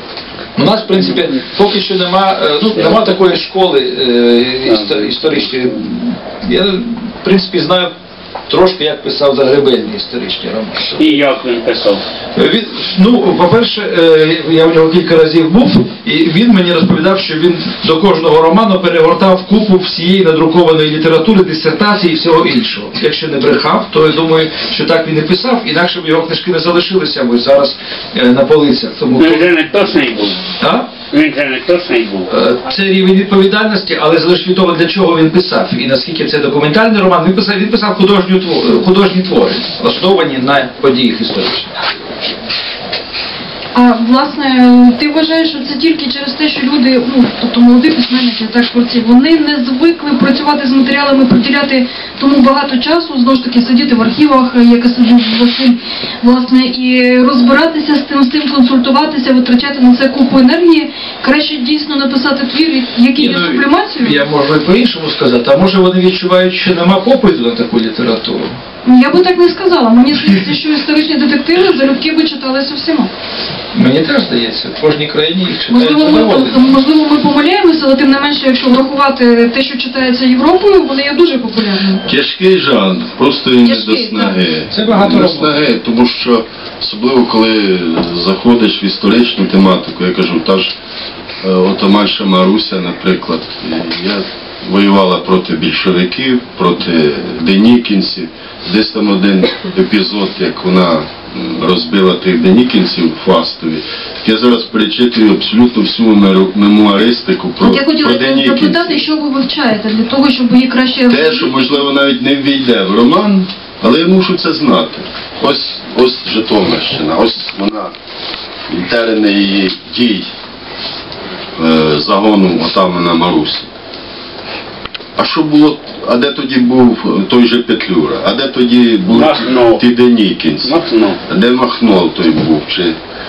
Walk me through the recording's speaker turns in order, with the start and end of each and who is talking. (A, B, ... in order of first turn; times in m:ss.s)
0:00.6-0:07.9 A
0:04.6-0:05.6 B
0:08.5-0:11.2 A
0:11.0-0:12.0 B
0:12.3-0:29.5 A
0:29.2-0:30.4 B
0:30.6-0:30.9 A
0:31.1-0:32.3 B
0:32.3-0:41.7 A
0:43.7-1:04.2 C
1:03.1-1:08.5 A
1:08.8-1:13.1 C
1:13.7-1:16.7 A
1:15.7-1:22.0 C
1:22.0-1:30.7 D
1:23.6-1:24.4 C
1:24.7-1:25.6 A
1:31.4-1:49.0 D
1:47.6-1:51.8 C
1:51.1-1:57.9 D
1:58.7-2:00.3 D
2:01.6-2:03.7 D
2:05.2-2:13.0 D
2:09.1-2:09.8 B
2:10.6-2:11.2 B